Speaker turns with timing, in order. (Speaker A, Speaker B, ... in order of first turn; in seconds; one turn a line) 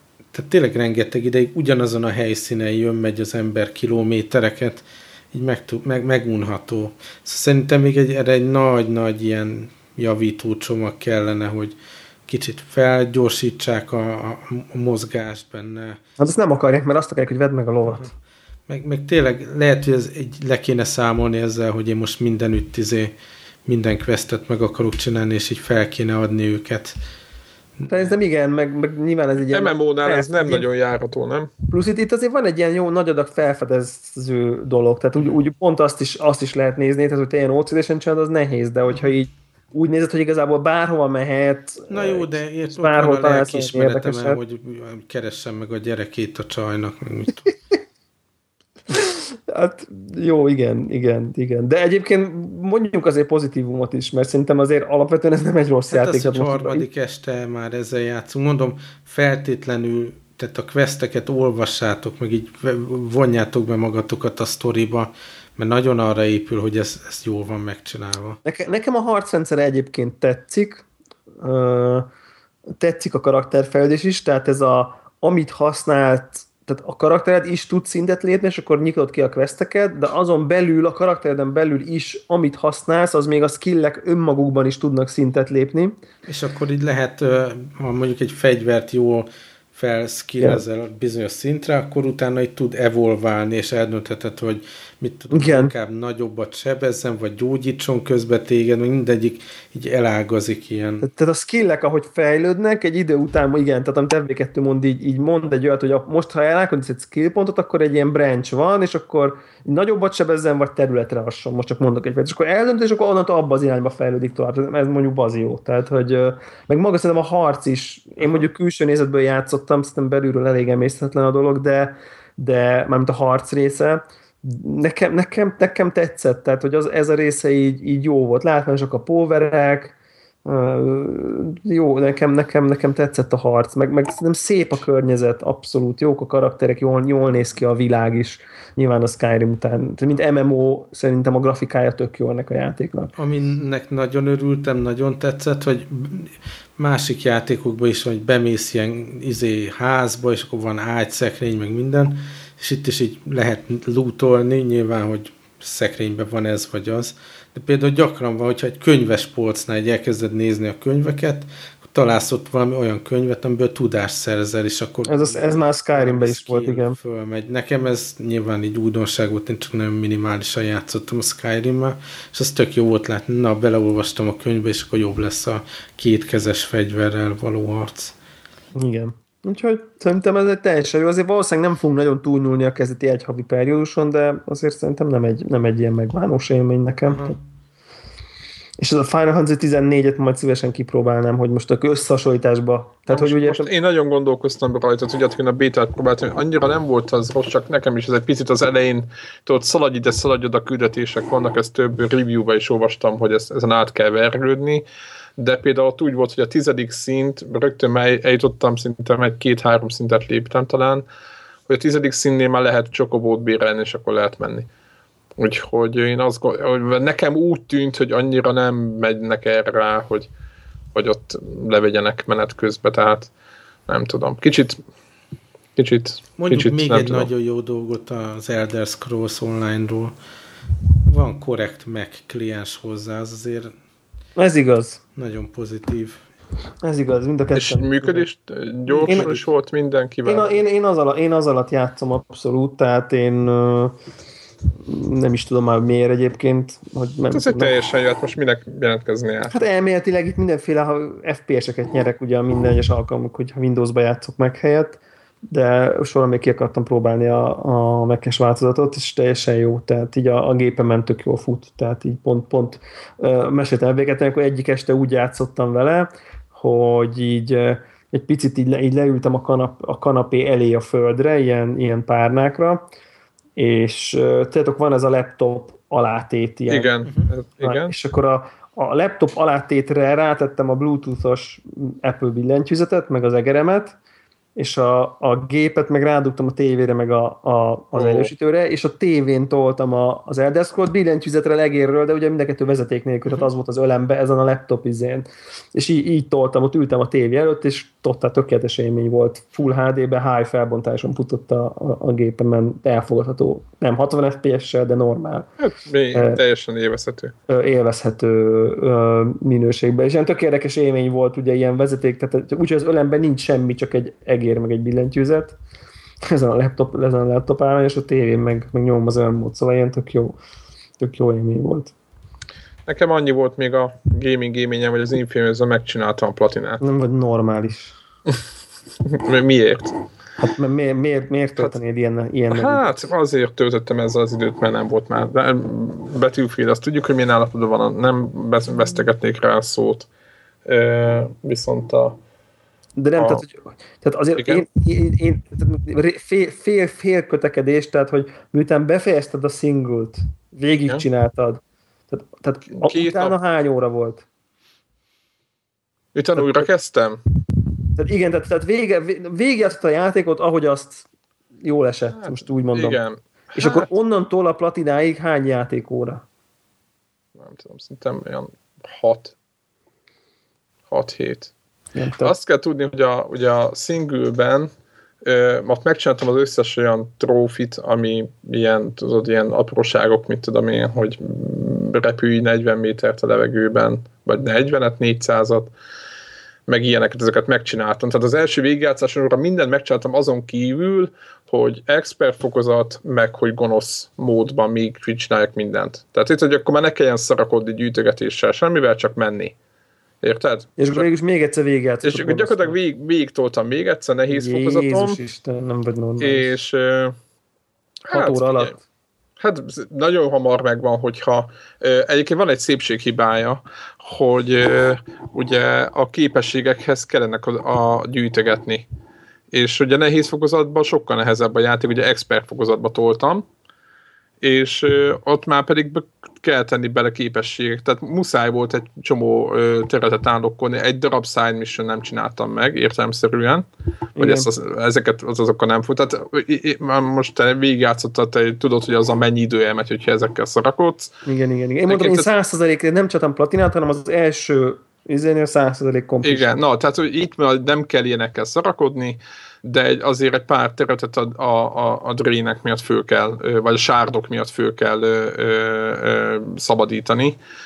Speaker A: 0.3-16.0
Speaker B: 16.2-18.1
Speaker A: 18.7-23.1
Speaker A: 23.6-26.9
Speaker A: 27.8-28.1
Speaker B: 27.9-30.7
Speaker C: 29.5-31.5
Speaker B: 31.7-44.4
Speaker A: 41.9-47.5
Speaker B: 48.9-56.9
Speaker A: 55.9-68.4
Speaker B: 68.4-70.8
Speaker B: 71.4-72.1
Speaker B: 72.8-86.0
Speaker A: 86.2-101.1
Speaker B: 95.3-95.7
Speaker B: 101.0-129.9
Speaker B: 130.4-143.1
Speaker A: 143.2-178.1
Speaker B: 165.1-166.9
Speaker B: 178.8-187.4
Speaker B: 188.8-193.7
Speaker C: 193.1-204.8
Speaker C: 205.4-211.0
Speaker C: 211.7-214.7
Speaker C: 215.4-220.3
Speaker C: 220.9-223.3
Speaker C: 223.9-224.8
Speaker C: 225.8-227.3
Speaker A: 226.4-230.1
Speaker A: 231.1-233.7
Speaker B: 234.4-235.0
Speaker A: 235.1-236.2
Speaker B: 236.8-238.3
Speaker C: 237.5-240.6
Speaker A: 238.9-239.4
Speaker B: 239.0-239.4
Speaker B: 240.2-243.9
Speaker B: 244.8-247.7
Speaker C: 247.3-249.6
Speaker B: 249.5-272.9
Speaker B: 273.6-276.9
Speaker C: 276.7-277.9
Speaker A: 277.1-277.3
Speaker B: 277.6-284.0
Speaker B: 284.6-305.5
Speaker C: 287.9-288.3
Speaker C: 305.6-307.3
Speaker B: 306.1-306.4
Speaker B: 307.5-315.6
Speaker B: 316.2-320.4
Speaker B: 321.0-321.9
Speaker C: 322.9-326.8
Speaker B: 326.8-327.9
Speaker C: 329.0-329.9
Speaker B: 330.4-333.1
Speaker C: 332.5-340.1
Speaker C: 340.6-342.2
Speaker B: 343.0-354.2
Speaker C: 343.2-343.4
Speaker C: 344.4-344.6
Speaker C: 352.7-353.4
Speaker C: 356.1-357.2
Speaker B: 358.0-361.1
Speaker B: 361.6-363.0
Speaker C: 362.1-363.9
Speaker B: 363.6-366.2
Speaker C: 367.4-369.3
Speaker C: 370.9-371.5
Speaker B: 371.9-372.3
Speaker C: 372.2-374.7
Speaker C: 375.2-385.7
Speaker C: 386.7-399.5
Speaker C: 400.2-401.0
Speaker B: 400.8-402.8
Speaker C: 402.0-405.2
Speaker B: 404.3-406.5
Speaker C: 406.2-407.1
Speaker C: 408.1-408.8
Speaker B: 408.1-408.8
Speaker C: 409.4-418.9
Speaker C: 419.5-423.4
Speaker C: 424.4-433.6
Speaker B: 434.2-434.5
Speaker C: 434.2-441.1
Speaker B: 441.2-446.5
Speaker C: 441.9-442.3
Speaker C: 446.2-457.4